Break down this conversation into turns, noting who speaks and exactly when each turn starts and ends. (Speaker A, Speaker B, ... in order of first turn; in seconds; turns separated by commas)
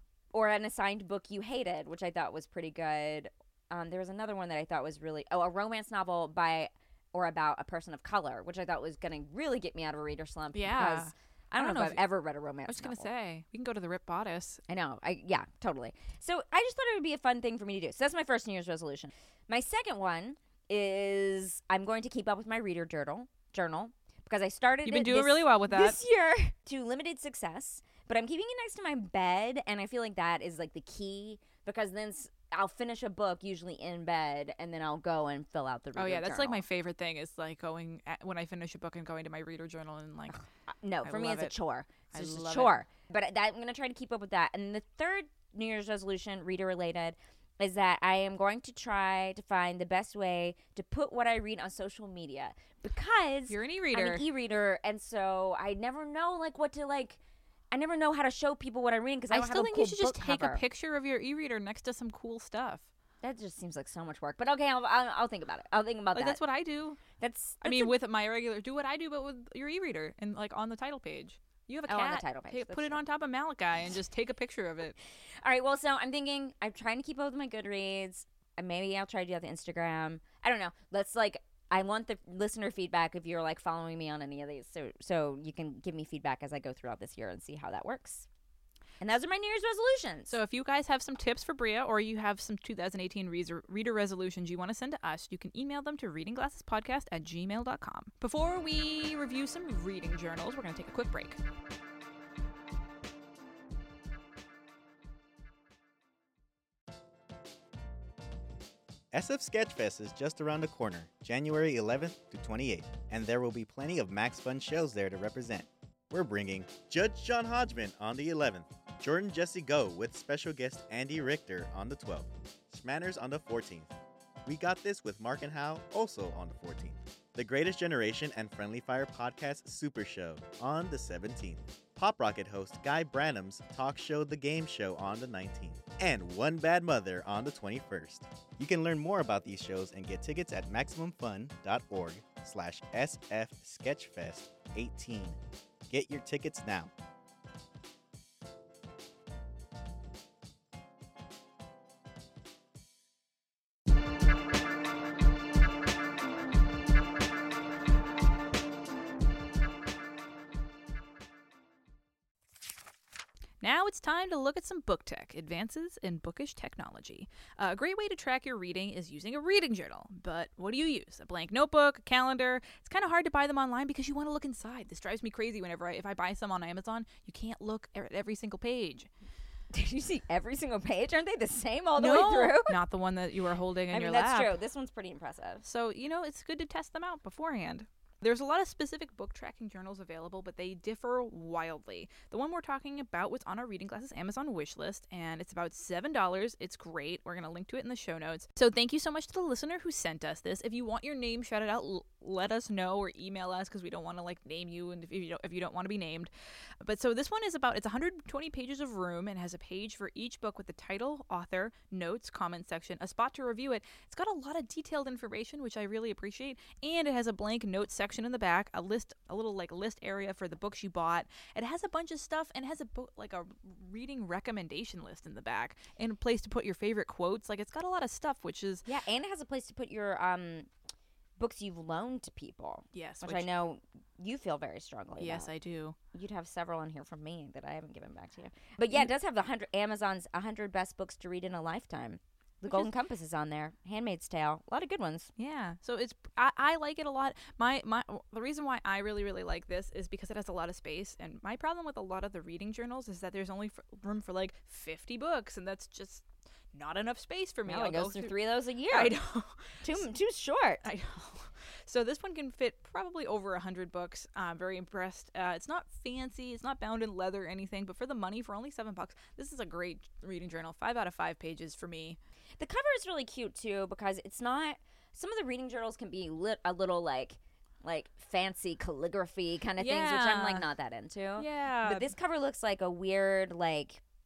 Speaker A: 0.3-13.1, Speaker B: 10.5-12.0, Speaker B: 12.7-14.6, Speaker A: 14.7-36.6, Speaker B: 24.8-26.0, Speaker B: 36.0-40.4, Speaker A: 40.3-57.2, Speaker B: 41.0-41.5, Speaker B: 42.1-42.7, Speaker B: 53.5-54.2, Speaker A: 57.7-60.6, Speaker B: 59.3-62.8, Speaker A: 63.2-66.4, Speaker B: 66.1-67.0, Speaker A: 67.2-67.9, Speaker B: 67.6-74.9, Speaker A: 71.9-73.0, Speaker A: 75.4-88.3, Speaker A: 89.0-90.4, Speaker B: 90.3-101.4, Speaker C: 109.1-123.9, Speaker C: 124.4-146.9, Speaker B: 163.6-179.1, Speaker A: 179.7-182.8, Speaker B: 182.0-184.5, Speaker A: 183.9-185.6, Speaker B: 185.6-206.3, Speaker B: 206.8-228.9, Speaker A: 228.8-230.7, Speaker A: 231.4-235.5, Speaker B: 232.9-233.5, Speaker B: 235.2-235.9, Speaker A: 236.1-245.3, Speaker B: 242.7-242.9, Speaker B: 245.4-258.3, Speaker A: 257.6-259.2, Speaker B: 258.9-260.0, Speaker A: 259.8-260.8, Speaker B: 260.8-272.2, Speaker A: 272.6-284.0, Speaker B: 279.8-280.6, Speaker B: 281.4-282.1